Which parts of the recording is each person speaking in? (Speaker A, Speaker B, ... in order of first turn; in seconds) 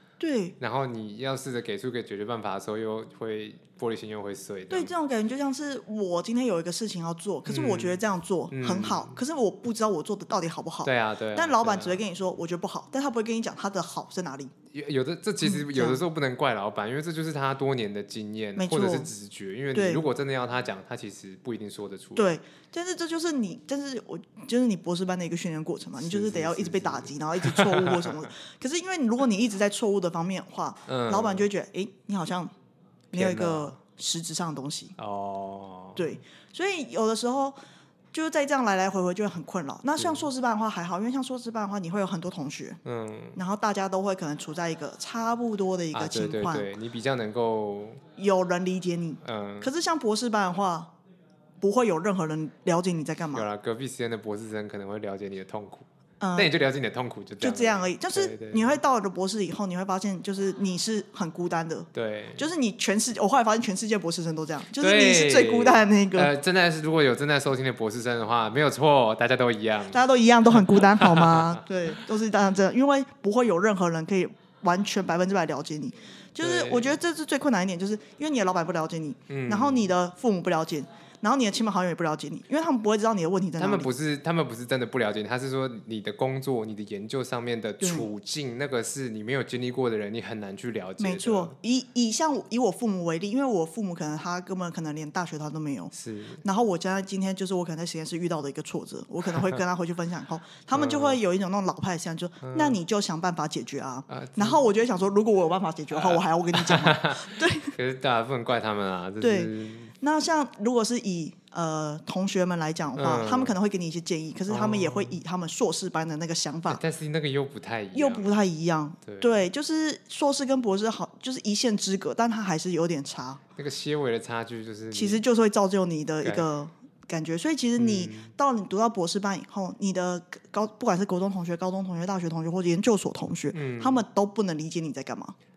Speaker A: 0.2-0.6, 4.7-14.5, 15.4-16.0, 18.6-19.1, 19.7-20.1, 22.2-32.5, 33.1-35.0, 36.0-37.6, 38.1-42.8, 43.4-46.7, 48.2-50.9, 51.6-53.5, 56.2-56.5, 57.4-66.3, 69.9-83.9, 87.8-88.1, 91.0-107.8, 109.2-116.8, 117.9-123.4, 124.9-135.3
Speaker B: 0.6-4.9, 7.5-9.2, 10.8-12.0, 14.7-22.4, 26.0-28.2, 30.9-31.5, 33.1-33.8, 35.0-36.1, 40.0-40.3, 42.9-43.4, 45.9-48.0, 49.2-49.7, 53.3-58.8, 61.9-62.5, 64.8-70.0, 70.6-71.6, 76.4-76.9, 79.3-79.9, 83.6-91.5, 95.9-96.4, 100.7-101.2, 102.4-102.8, 104.1-104.6, 105.9-109.9, 113.0-113.6, 114.5-115.2, 116.7-118.4, 119.0-119.5, 123.6-125.2, 126.2-126.5, 127.8-128.3, 133.5-134.0